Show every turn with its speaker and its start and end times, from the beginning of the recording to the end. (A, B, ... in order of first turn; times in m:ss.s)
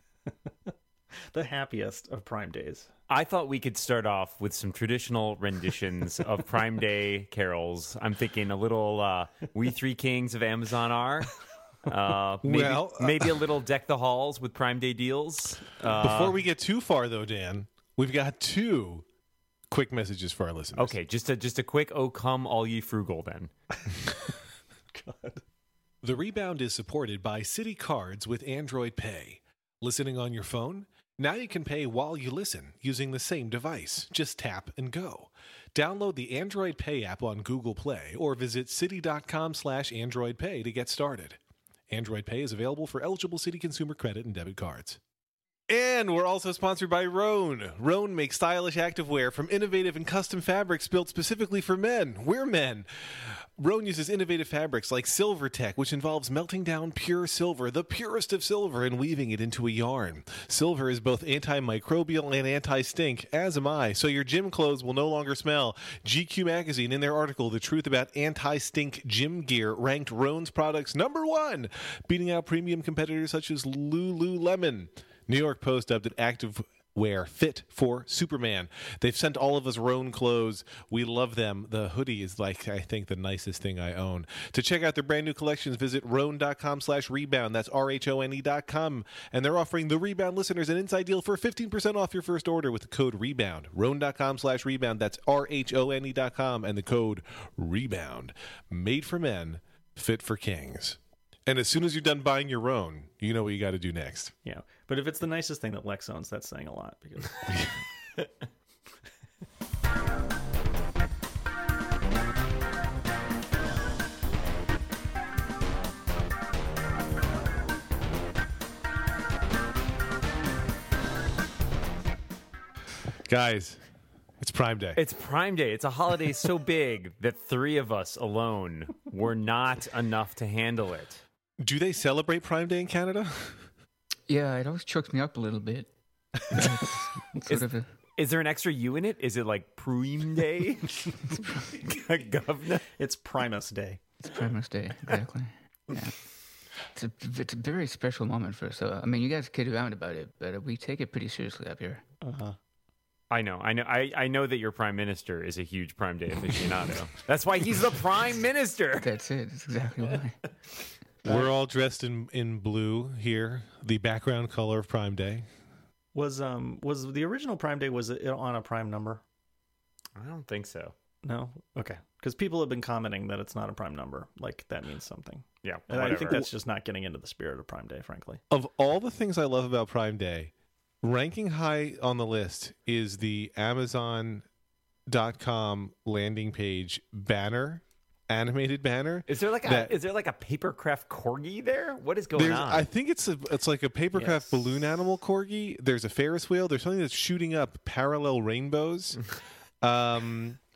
0:01.3-0:02.9 A
0:03.1-0:16.3 B
0:12.4-0:13.4 C
0:15.9-0:19.0 C
0:19.7-0:20.9 C
0:20.8-0:23.5 B
0:24.9-0:25.4 A
0:26.0-0:41.4 C
0:41.9-0:45.0 C
0:45.7-1:44.3 C
1:44.4-1:47.4 A
1:47.5-1:47.7 C
2:03.2-2:03.8 C
2:04.4-2:05.0 C
2:05.0-2:11.2 B
2:11.6-2:13.6 C
2:14.3-2:15.9 D
2:16.5-2:17.9 D
2:18.2-2:22.9 B
2:23.0-2:24.0 A
2:24.2-2:26.2 D
2:26.9-2:32.0 D
2:32.2-2:32.6 A
2:33.3-2:39.1 B
2:39.0-2:40.4 D
2:41.2-2:45.4 C
2:46.1-2:49.2 A
2:50.2-2:50.9 B
2:51.2-2:58.4 A
2:55.6-2:56.5 B
2:58.5-3:00.5 C
3:01.0-3:04.4 C
3:05.1-3:09.9 C
3:09.3-3:12.9 B
3:12.3-3:19.2 C
3:14.2-3:14.6 A
3:19.8-3:20.6 C